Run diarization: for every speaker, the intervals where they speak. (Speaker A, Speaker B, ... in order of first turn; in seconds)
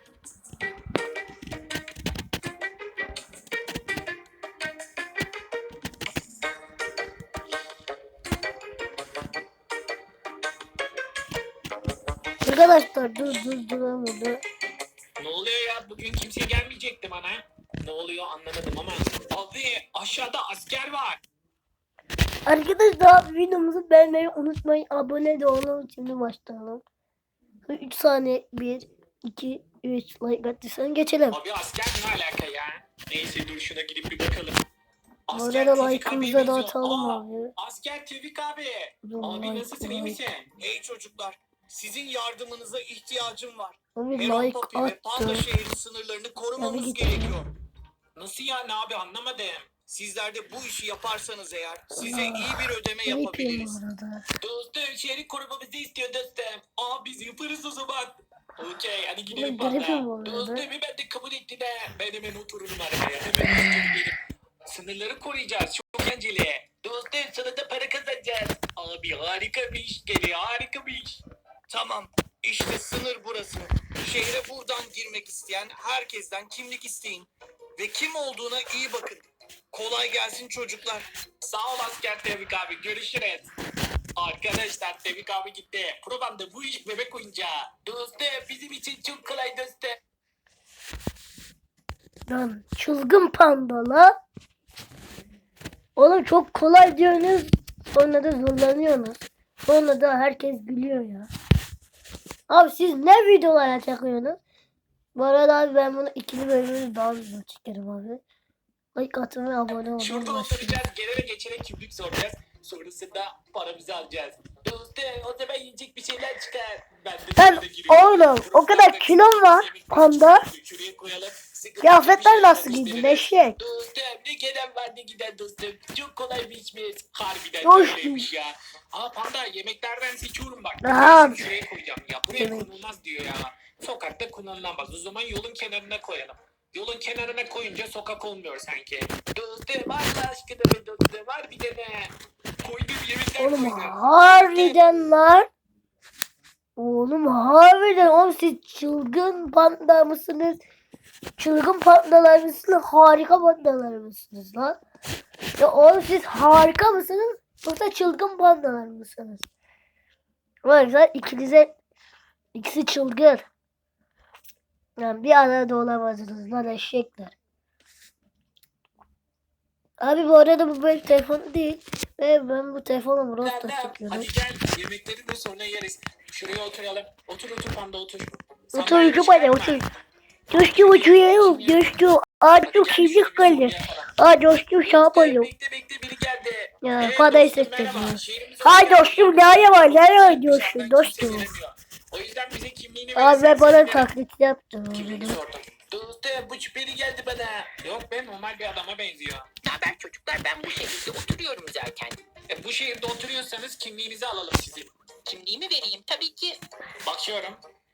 Speaker A: 12.4-14.4, 22.5-26.8, 27.7-31.4, 35.3-37.5, 39.0-40.2, 44.0-45.5, 46.6-47.4, 52.0-54.2, 59.3-60.7, 92.3-94.1, 96.0-101.3, 102.5-104.4, 105.2-108.2, 109.0-110.8, 117.4-120.4, 121.8-123.6, 127.6-128.2, 130.8-131.5, 132.4-132.7, 143.4-145.5, 146.8-150.6, 151.4-154.8, 155.6-159.5, 160.7-161.7, 162.5-163.5, 165.0-167.3, 170.0-174.3, 178.7-179.9, 180.5-185.5, 186.8-191.5, 193.2-195.4
Speaker B: 15.2-21.2, 31.3-34.6, 35.3-40.5, 48.2-49.7, 54.4-71.2, 81.4-83.5, 84.2-90.0, 109.7-144.8, 173.4-179.8, 180.5-182.0, 182.6-184.2, 184.8-194.1, 194.9-199.5, 202.5-204.9, 207.1-207.6
Speaker C: 40.6-47.5, 49.9-53.8, 71.7-81.1
Speaker D: 199.6-202.2, 205.2-206.6